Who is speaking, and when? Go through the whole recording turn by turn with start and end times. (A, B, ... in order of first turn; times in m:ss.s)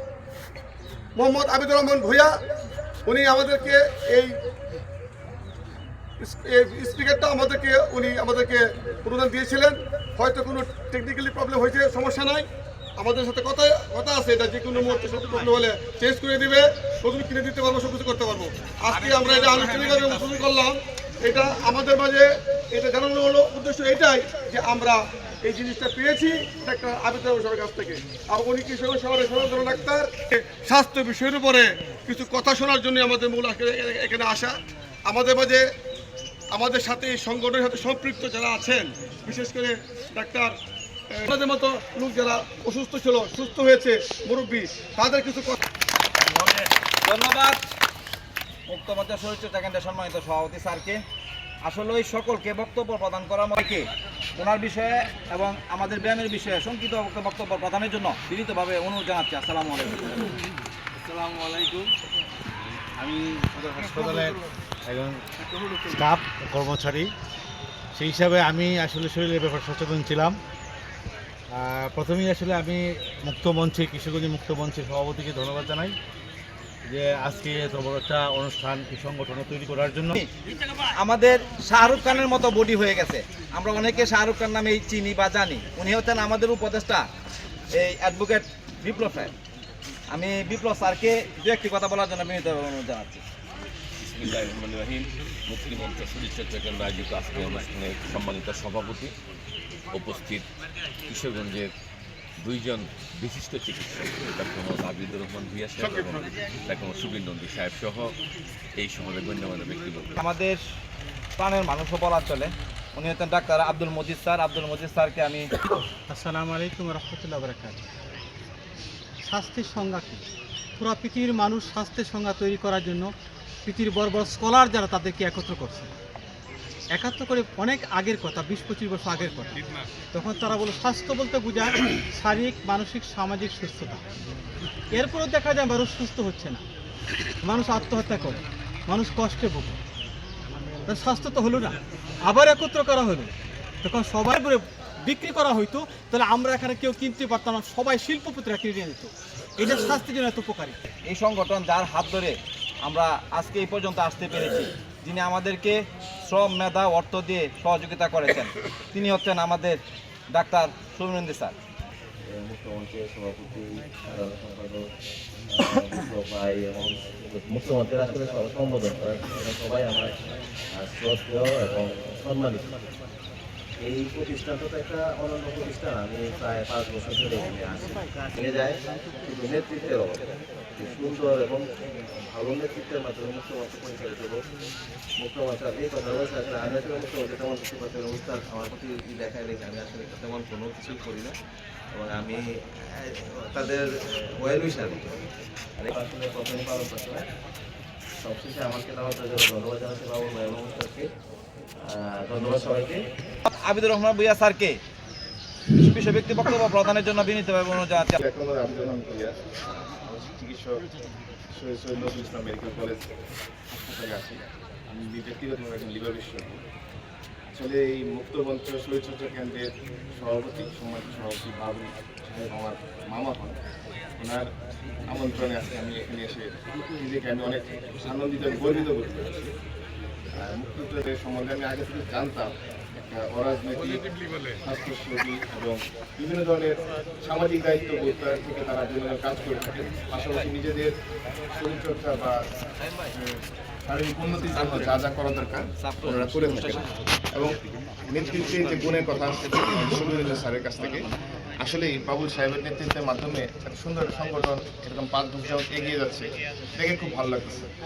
0:01.2-0:02.3 A
0:03.1-0:04.3 A
0:06.2-0:12.5 A
0:13.0-0:35.6 A
0:36.5-0:40.5 A
0:41.1-0:45.6 A
0:46.3-0:47.6 B
0:48.7-0:51.0 B
0:51.6-0:53.8 B
0:54.4-1:00.3 B
1:01.0-1:01.9 C
1:03.0-1:04.4 C
1:04.9-1:05.2 C
1:05.9-1:07.1 C
1:08.0-1:10.4 C
1:11.5-1:16.0 C
1:16.9-1:20.2 C
1:21.0-1:27.1 B
1:27.7-1:29.3 B
1:30.1-1:33.2 B
1:34.0-1:39.1 D
1:39.9-1:40.5 D
1:41.1-1:41.7 D
1:42.4-1:48.1 D
1:48.8-1:50.2 D
1:50.2-1:50.6 B
1:51.4-1:55.5 B
1:56.1-1:57.8 E
1:59.2-2:00.2 E
2:00.8-2:03.1 E
2:03.6-2:05.9 E
2:06.9-2:09.6 E
2:10.1-2:14.0 E
2:14.9-2:16.6 E
2:17.4-2:19.8 E
2:20.9-2:23.3 E
2:23.8-2:30.8 E
2:31.1-2:39.8 B
2:40.3-2:41.6 B
2:42.3-2:44.9 F
2:45.5-2:50.1 F
2:50.7-2:52.7 F
2:53.8-3:00.2 F
3:00.8-3:04.4 F
3:05.2-3:11.3 F
3:11.9-3:17.3 F
3:18.2-3:21.1 F
3:21.8-3:23.0 F
3:23.5-3:24.8 B
3:25.8-3:28.2 B
3:28.2-3:30.8 G
3:31.5-3:33.1 G
3:33.7-3:36.6 G
3:37.5-3:43.6 G
3:44.2-3:44.5 G
3:45.1-3:49.5 G
3:50.4-3:52.5 G
3:53.1-3:54.1 G
3:54.6-4:00.9 G
4:01.5-4:02.4 G
4:03.8-4:07.5 G
4:04.6-4:05.0 B
4:05.8-4:06.9 B
4:08.1-4:11.1 G
4:11.6-4:17.7 G